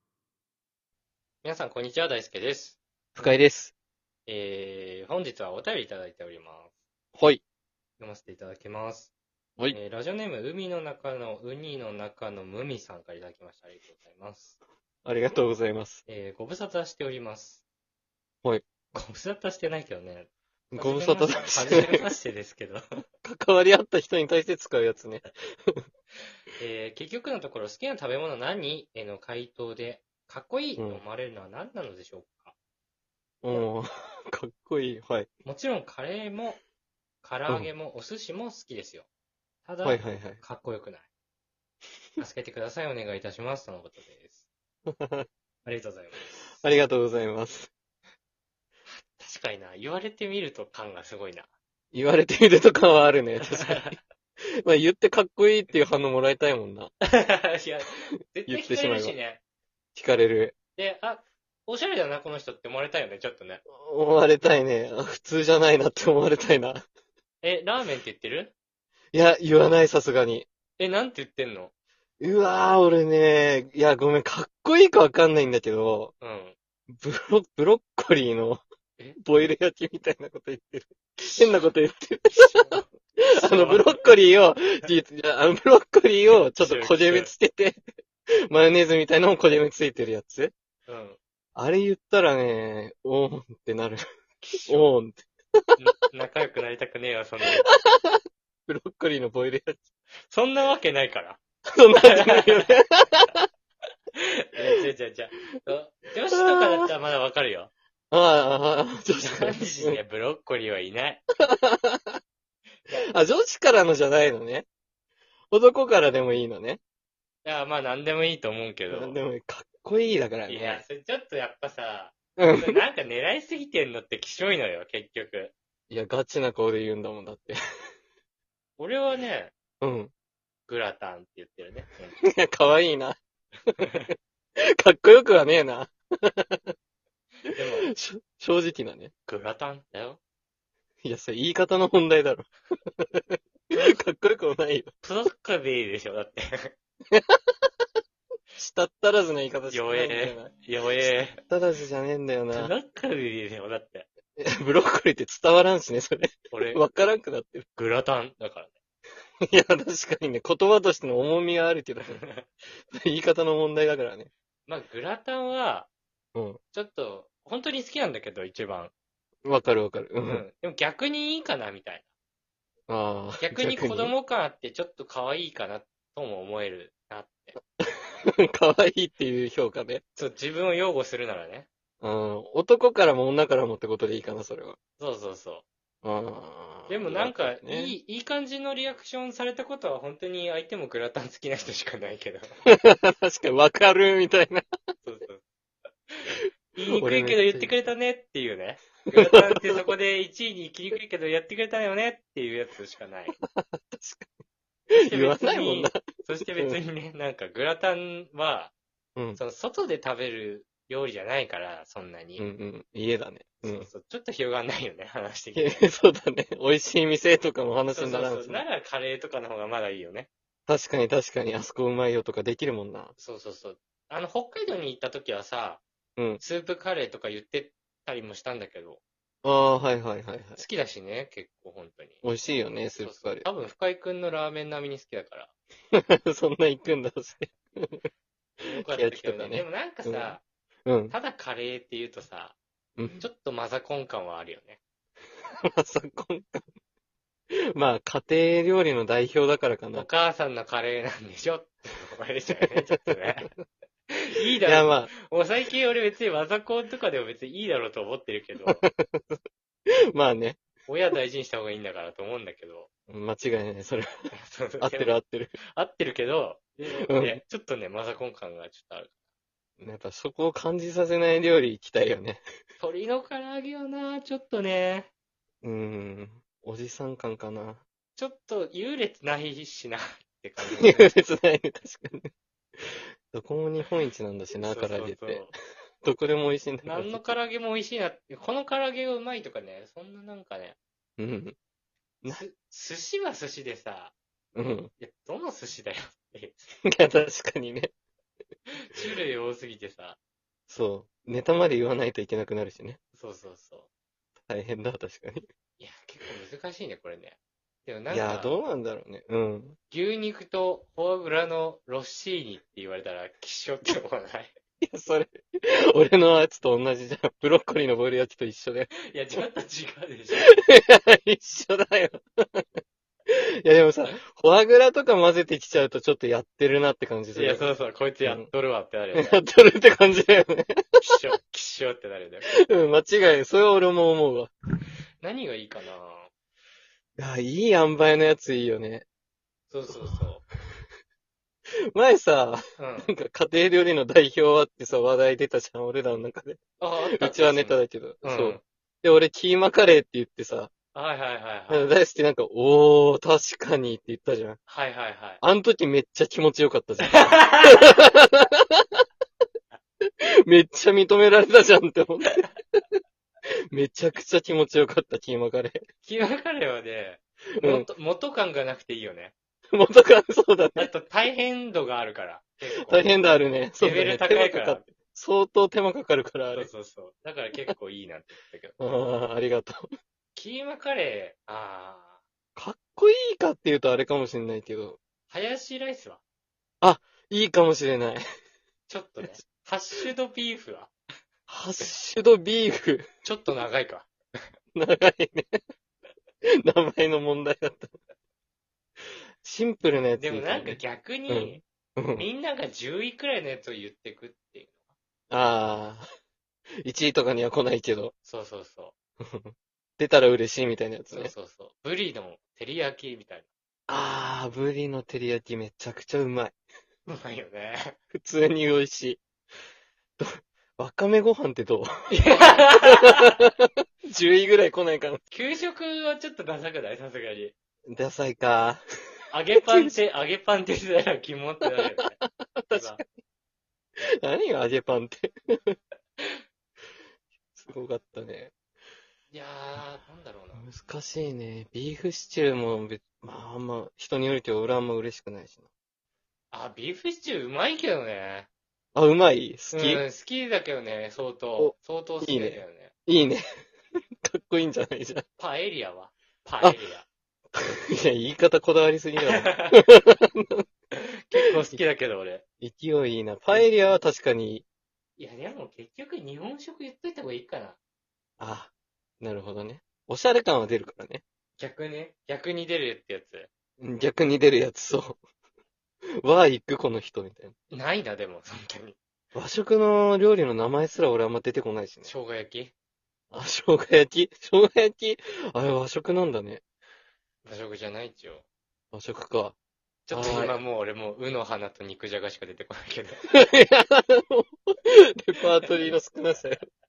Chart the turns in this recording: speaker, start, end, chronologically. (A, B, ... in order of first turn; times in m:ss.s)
0:01.4-0:03.3 A
0:03.2-0:03.7 B
0:04.3-0:06.7 A
0:07.1-0:07.4 B
0:08.0-0:09.1 A
0:09.7-0:14.6 A
0:15.0-0:16.0 B
0:16.1-0:17.6 A
0:18.9-0:22.8 A
0:20.7-0:22.1 B
0:23.2-0:25.8 B
0:26.6-0:32.5 A
0:33.4-0:35.3 B
0:35.4-0:36.6 A
0:37.2-0:39.0 A
0:39.6-0:41.1 A
0:39.8-0:40.4 B
0:42.2-0:44.5 A
0:44.9-0:45.3 B
0:45.6-0:46.6 A
0:46.6-0:47.7 B
0:48.9-0:51.5 A
0:51.9-0:54.0 B
0:53.5-0:54.0 A
0:54.6-0:56.9 B
0:57.0-0:59.4 A
0:58.5-0:59.2 B
0:59.9-1:00.5 B
1:00.8-1:03.6 A
1:03.7-1:06.8 B
1:07.4-1:08.5 A
1:09.1-1:10.4 B
1:10.8-1:11.7 A
1:12.2-1:16.1 B
1:16.2-1:16.5 A
1:16.9-1:18.6 B
1:19.2-1:22.8 B
1:21.2-1:21.7 A
1:22.3-1:24.1 A
1:23.4-1:27.8 B
1:26.3-1:27.3 A
1:28.5-1:30.5 B
1:30.9-1:31.2 A
1:31.6-1:34.0 B
1:34.4-1:34.9 A
1:34.7-1:35.2 B
1:35.8-1:37.7 A
1:37.4-1:39.8 B
1:40.2-1:41.4 A
1:41.8-1:43.4 B
1:42.0-1:42.8 A
1:44.1-1:47.7 A
1:44.6-1:44.8 B
1:46.3-1:46.9 B
1:48.1-1:50.0 B
1:49.2-1:51.2 A
1:51.4-1:52.2 B
1:52.9-1:54.6 B
1:55.5-1:56.8 B
1:57.4-1:59.2 A
1:58.9-2:00.8 B
2:00.5-2:05.5 A
2:02.4-2:02.8 B
2:05.9-2:07.6 B
2:08.8-2:09.5 A
2:09.8-2:10.1 B
2:10.7-2:12.2 A
2:12.2-2:14.1 B
2:13.8-2:14.1 A
2:14.8-2:16.7 B
2:17.5-2:19.1 B
2:17.5-2:17.9 A
2:19.2-2:20.2 A
2:21.0-2:24.9 B
2:23.7-2:24.0 A
2:25.0-2:26.7 A
2:27.1-2:27.7 B
2:28.6-2:32.7 B
2:29.7-2:31.4 A
2:32.5-2:34.1 A
2:34.4-2:37.6 B
2:36.5-2:36.8 A
2:37.8-2:38.8 A
2:39.5-2:42.2 B
2:42.0-2:42.5 A
2:42.9-2:44.3 B
2:44.7-2:45.9 A
2:46.3-2:46.6 B
2:46.7-2:48.9 A
2:49.4-2:50.4 B
2:50.2-2:52.1 A
2:52.9-2:54.1 B
2:53.4-2:57.5 A
2:57.9-3:00.0 B
3:00.2-3:01.7 A
3:02.0-3:04.8 B
3:05.0-3:05.6 A
3:06.0-3:07.9 B
3:06.9-3:12.5 A
3:12.6-3:14.6 B
3:15.0-3:15.4 A
3:16.1-3:23.4 A
3:16.9-3:17.7 B
3:19.1-3:19.9 B
3:23.4-3:24.3 B
3:24.9-3:28.7 A
3:24.9-3:26.8 B
3:29.2-3:29.4 B
3:29.3-3:32.5 A
3:32.4-3:33.9 B
3:33.6-3:35.9 A
3:35.5-3:38.6 B
3:37.9-3:40.3 A
3:40.7-3:43.1 B
3:43.2-3:45.8 A
3:46.2-3:46.4 B
3:46.4-3:49.0 A
3:49.4-3:50.6 B
3:50.6-3:52.2 A
3:52.2-3:53.5 B
3:53.0-3:55.5 A
3:55.9-3:58.1 B
3:58.6-4:00.4 A
3:58.6-4:01.2 B
4:01.1-4:02.6 A
4:03.0-4:03.2 B
4:03.2-4:04.8 A
4:05.7-4:06.7 B
4:07.7-4:10.1 B
4:09.9-4:13.5 A
4:12.6-4:13.5 B
4:14.1-4:18.8 A
4:14.6-4:15.1 B
4:18.6-4:19.4 B
4:20.1-4:20.6 B
4:20.8-4:22.9 A
4:23.1-4:24.1 B
4:24.3-4:29.1 A
4:24.8-4:25.6 B
4:27.0-4:27.4 B
4:29.8-4:32.4 B
4:32.8-4:35.1 A
4:35.6-4:37.8 B
4:38.2-4:41.1 A
4:40.6-4:45.5 B
4:44.6-4:45.5 A
4:46.0-4:47.3 B
4:46.8-4:50.8 A
4:51.2-4:51.6 B
4:52.3-4:54.1 A
4:54.5-4:54.9 B
4:55.0-4:56.8 A
4:56.8-4:57.9 B
4:58.8-5:00.2 A
5:00.7-5:03.0 B
5:03.1-5:03.9 A
5:04.5-5:05.4 B
5:05.8-5:08.6 A
5:08.1-5:09.8 B
5:09.9-5:14.5 A
5:14.8-5:19.4 B
5:19.0-5:20.5 A
5:20.3-5:27.7 B
5:27.3-5:29.4 A
5:28.2-5:28.5 B
5:29.1-5:31.1 B
5:31.0-5:32.5 A
5:32.5-5:34.5 B
5:35.2-5:36.3 A
5:37.2-5:39.0 B
5:39.7-5:40.4 A
5:39.9-5:40.3 B
5:41.9-5:50.7 B
5:42.8-5:43.1 A
5:46.8-5:48.6 A
5:50.9-5:51.9 A
5:51.7-5:54.6 B
5:54.7-5:55.4 A
5:55.4-5:59.0 B
5:57.1-5:58.0 A
6:00.4-6:02.8 B
6:03.7-6:05.8 B
6:06.0-6:09.3 A
6:07.6-6:07.9 B
6:09.7-6:10.9 B
6:10.8-6:13.2 A
6:12.8-6:16.7 B
6:13.8-6:14.9 A
6:16.5-6:18.8 A
6:18.8-6:19.9 B
6:20.3-6:22.2 A
6:22.6-6:25.0 B
6:25.3-6:26.2 A
6:26.8-6:28.2 B
6:28.9-6:30.9 A
6:31.5-6:33.1 B
6:33.2-6:34.4 A
6:34.7-6:35.6 B
6:36.6-6:38.0 B
6:39.4-6:42.3 B
6:40.2-6:44.8 A
6:45.3-6:46.0 B
6:46.8-6:48.1 B
6:48.2-6:48.9 A
6:49.2-6:51.3 B
6:51.1-6:53.5 A
6:53.9-6:56.5 B
6:57.0-6:58.0 A
6:58.1-6:59.2 B
7:00.2-7:05.2 B
7:02.1-7:03.4 A
7:05.3-7:07.5 A
7:07.9-7:08.8 B
7:09.3-7:12.2 A
7:09.5-7:09.9 B
7:11.6-7:13.1 B
7:12.7-7:13.0 A
7:14.2-7:15.8 B
7:17.5-7:18.5 B
7:19.3-7:20.6 A
7:20.5-7:25.6 B
7:26.5-7:28.5 A
7:28.9-7:30.0 B
7:29.7-7:32.9 A
7:31.6-7:33.4 B
7:34.2-7:35.2 B
7:35.4-7:37.0 A
7:37.5-7:40.7 B
7:39.2-7:39.8 A
7:41.0-7:42.4 A
7:41.3-7:41.8 B
7:42.6-7:44.6 B
7:45.2-7:47.8 A
7:48.4-7:51.2 B
7:51.6-7:53.5 A
7:53.8-7:55.2 B
7:56.2-7:57.5 B
7:57.7-7:59.0 A
7:59.3-8:02.1 B
8:02.0-8:02.7 A
8:03.3-8:06.6 B
8:07.4-8:08.4 A
8:08.9-8:09.6 B
8:10.1-8:13.4 A
8:10.1-8:10.6 B
8:13.3-8:16.6 B